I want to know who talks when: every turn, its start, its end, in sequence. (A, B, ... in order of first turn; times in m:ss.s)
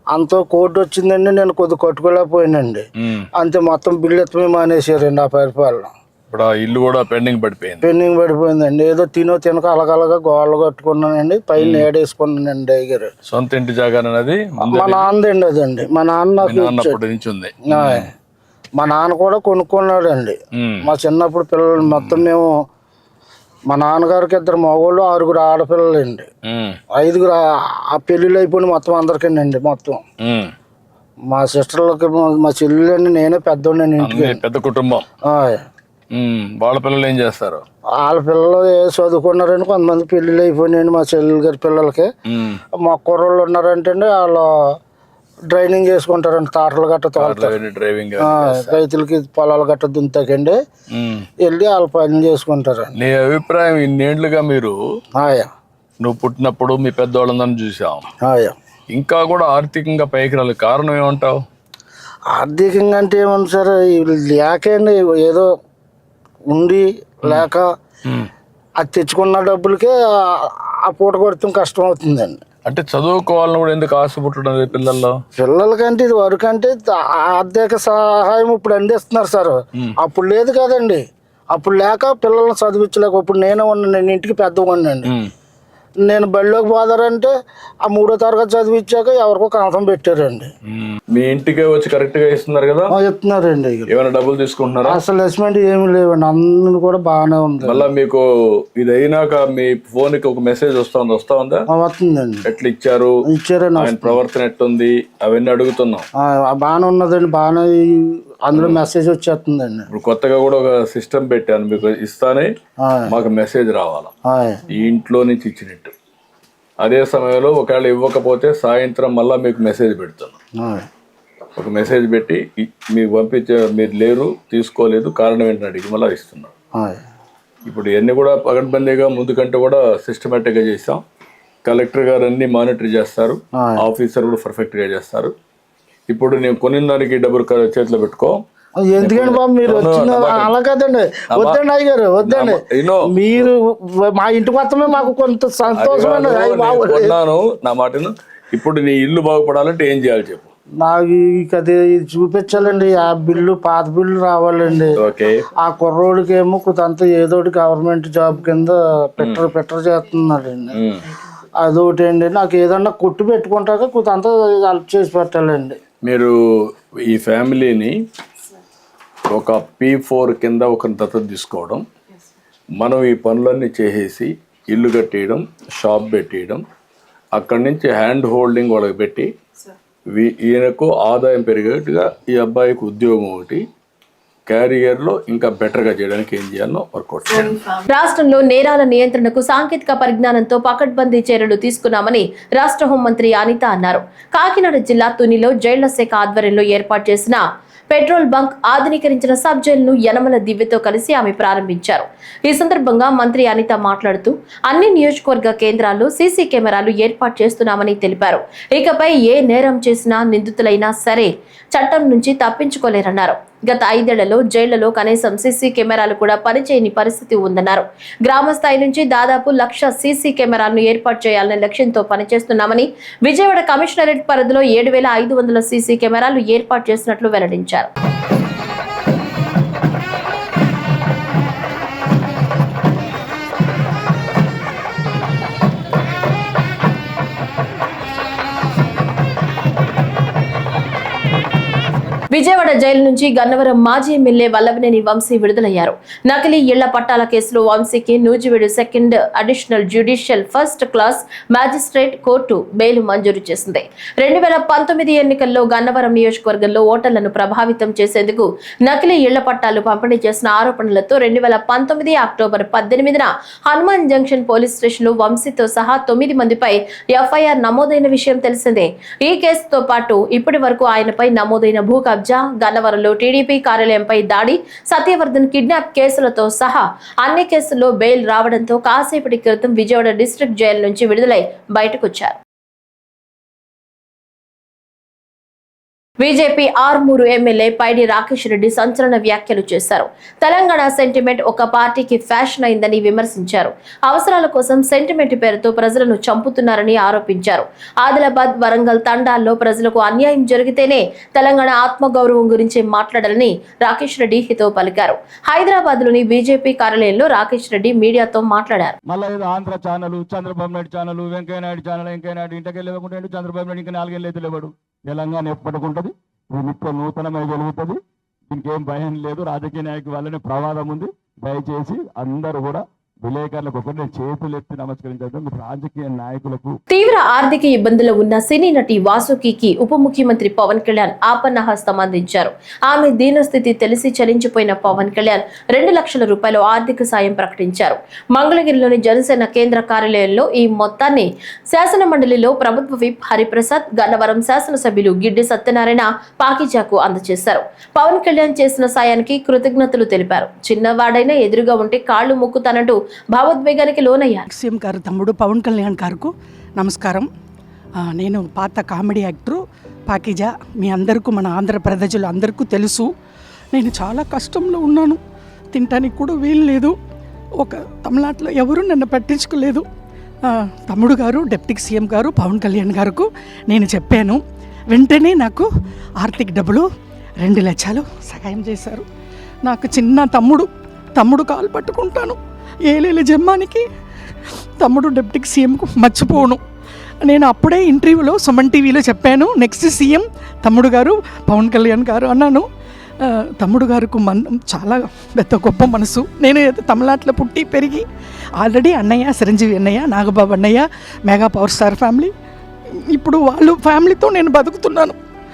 0:00.1-0:02.8 A
0:03.0-0:03.3 B
0:03.4-0:05.9 A
0:06.3-0:07.8 B
0:07.8-0:13.1 A
0:11.6-0:11.9 B
0:13.3-0:15.1 B
0:14.6-0:17.0 A
0:16.4-0:18.1 B
0:17.7-0:18.1 A
0:18.8-0:22.5 A
0:20.6-0:20.9 B
0:21.9-0:22.2 B
0:23.7-0:26.3 A
0:26.5-0:26.8 B
0:26.9-0:27.4 A
0:27.9-0:30.0 A
0:30.2-0:30.5 B
0:31.3-0:34.4 A
0:34.0-0:35.0 B
0:35.2-0:35.6 A
0:36.1-0:37.6 B
0:38.0-0:42.1 A
0:42.3-0:42.6 B
0:42.8-0:44.5 A
0:45.5-0:47.6 A
0:47.2-0:48.8 B
0:48.2-0:50.6 A
0:50.9-0:51.3 B
0:51.4-0:52.9 A
0:53.0-0:54.8 B
0:55.2-0:55.5 A
0:56.0-0:58.1 B
0:58.2-0:58.6 A
0:58.9-1:01.4 B
1:02.4-1:05.5 A
1:06.5-1:07.7 A
1:08.8-1:12.4 A
1:12.7-1:15.2 B
1:15.4-1:25.1 A
1:26.1-1:27.3 A
1:27.8-1:30.5 A
1:30.7-1:32.9 B
1:32.9-1:33.9 A
1:33.9-1:35.0 B
1:34.8-1:37.9 A
1:37.7-1:38.2 B
1:38.8-1:41.6 B
1:41.7-1:42.5 A
1:42.5-1:43.1 B
1:43.3-1:44.2 A
1:43.8-1:46.0 B
1:46.2-1:49.9 A
1:48.6-1:48.8 B
1:49.9-1:52.5 B
1:52.8-1:53.1 A
1:53.1-1:54.1 B
1:54.3-1:54.6 A
1:54.7-1:55.9 B
1:56.8-2:00.4 B
2:00.6-2:00.9 A
2:01.6-2:06.5 B
2:07.7-2:11.0 B
2:11.6-2:15.3 B
2:16.1-2:18.4 B
2:18.8-2:27.2 A
2:19.0-2:20.5 B
2:21.3-2:21.6 B
2:22.2-2:23.5 B
2:25.8-2:30.5 B
2:30.8-2:35.0 A
2:35.0-2:35.4 B
2:35.6-2:40.8 A
2:40.8-2:41.0 B
2:41.6-2:45.8 A
2:46.0-2:46.3 B
2:47.1-2:47.9 B
2:49.3-2:51.8 B
2:52.8-2:56.6 B
2:57.4-2:59.3 B
3:00.1-3:03.6 B
3:04.5-3:07.6 B
3:07.9-3:47.9 C
4:02.3-4:42.4 C
4:46.2-5:09.0 C
5:09.1-5:26.8 D
5:26.9-5:54.5 C
5:54.5-5:57.3 E
5:58.1-6:03.1 E
6:03.7-6:05.2 E
6:05.7-6:07.0 E
6:07.6-6:09.9 E
6:10.9-6:15.7 E
6:16.2-6:16.9 E
6:17.4-6:19.1 E
6:19.6-6:22.4 E
6:22.9-6:23.8 E
6:24.8-6:26.6 E
6:27.3-6:32.7 E
6:33.6-6:38.0 E
6:38.6-6:42.3 E
6:43.2-6:45.2 E